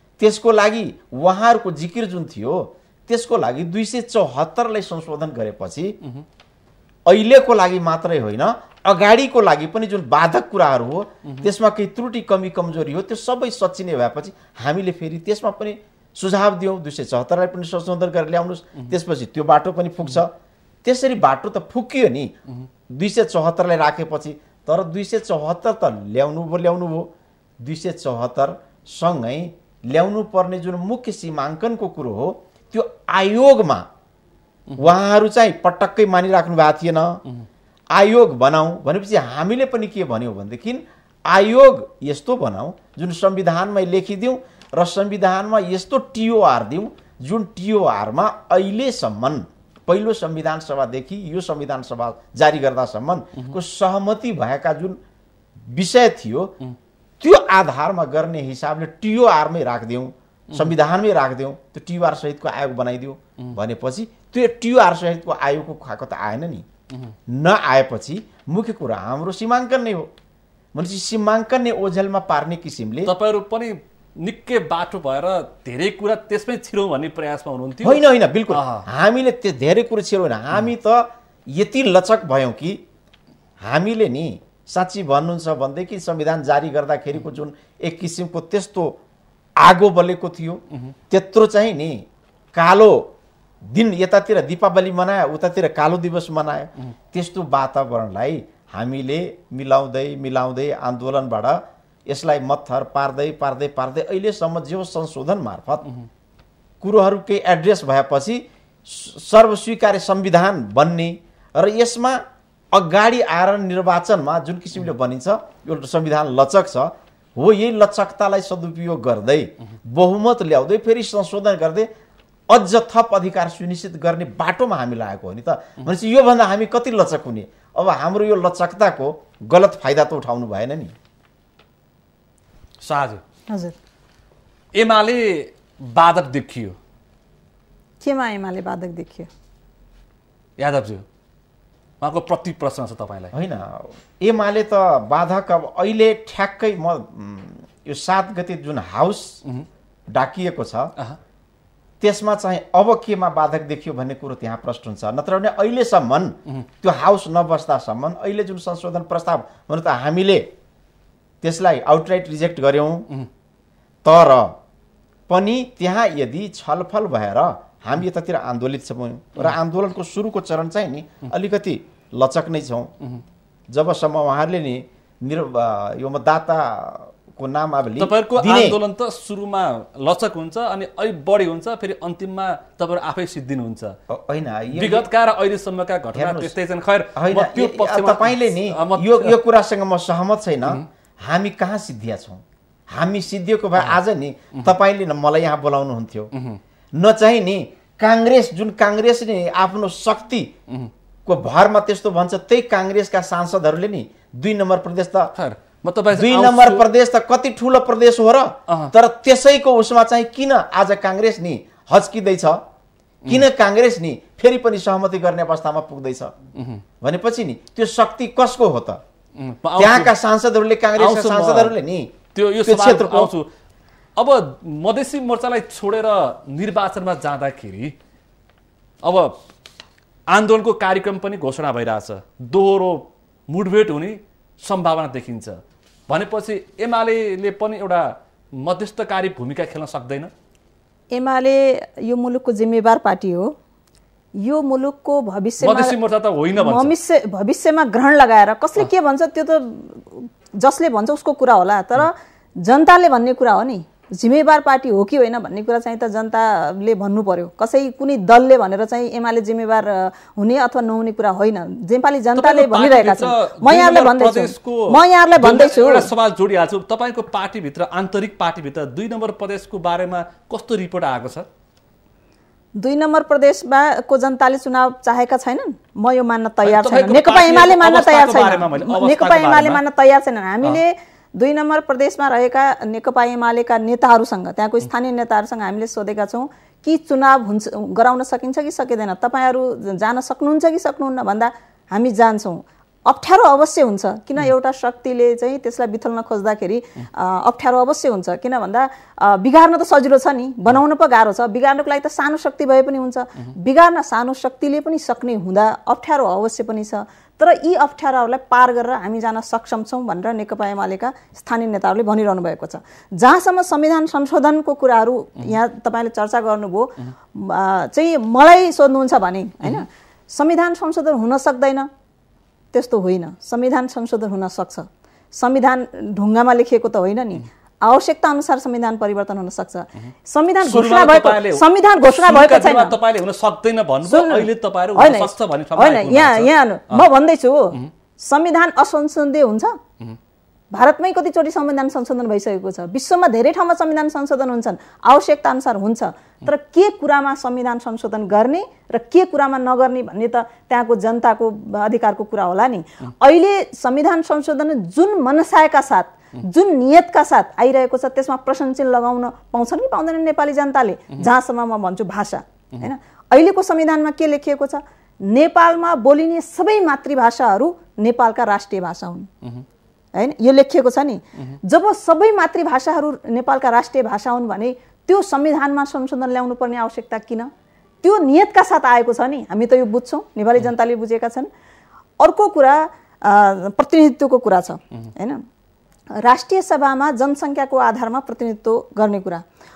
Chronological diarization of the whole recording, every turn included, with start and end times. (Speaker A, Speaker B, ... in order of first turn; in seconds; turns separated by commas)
Speaker A: 0.2-6.0, Speaker A: 7.0-20.3, Speaker A: 20.8-22.3, Speaker A: 22.9-33.9, Speaker A: 34.8-37.2, Speaker A: 37.9-55.0, Speaker A: 55.6-56.5, Speaker A: 57.2-66.7, Speaker A: 67.3-70.1, Speaker A: 70.7-73.1, Speaker B: 73.0-78.9, Speaker A: 77.8-82.8, Speaker A: 83.6-89.0, Speaker A: 89.6-92.0, Speaker A: 92.5-93.1, Speaker A: 93.7-105.8, Speaker A: 106.8-121.9, Speaker A: 122.5-130.9, Speaker B: 132.8-133.2, Speaker C: 133.5-133.7, Speaker B: 134.7-136.8, Speaker C: 138.0-139.3, Speaker B: 140.6-141.0, Speaker B: 142.0-143.3, Speaker A: 143.3-149.4, Speaker A: 150.1-150.9, Speaker A: 152.0-160.5, Speaker A: 161.4-163.1, Speaker A: 164.0-164.5, Speaker A: 165.3-172.9, Speaker A: 173.7-178.8, Speaker B: 178.0-184.0, Speaker A: 184.1-185.1, Speaker B: 184.7-189.4, Speaker A: 186.1-186.5, Speaker A: 187.1-196.3, Speaker B: 196.3-196.6, Speaker A: 196.9-200.5, Speaker A: 201.2-205.3, Speaker B: 205.3-206.8, Speaker A: 206.1-212.6, Speaker A: 213.3-216.3, Speaker B: 216.5-216.8, Speaker A: 217.0-219.0, Speaker B: 219.4-220.1, Speaker A: 219.8-223.3, Speaker B: 221.0-221.7, Speaker B: 222.3-223.5, Speaker B: 224.2-227.9, Speaker B: 229.0-229.3, Speaker B: 230.3-240.3, Speaker C: 241.1-243.6, Speaker C: 244.4-246.0, Speaker B: 245.6-246.9, Speaker C: 246.6-266.1, Speaker B: 262.3-271.5, Speaker C: 272.8-321.9, Speaker B: 276.6-279.8, Speaker C: 322.7-333.0, Speaker B: 330.6-337.1, Speaker C: 334.0-339.8, Speaker C: 340.7-369.3, Speaker C: 370.1-377.5, Speaker C: 378.0-381.5, Speaker C: 382.2-385.4, Speaker C: 386.2-389.4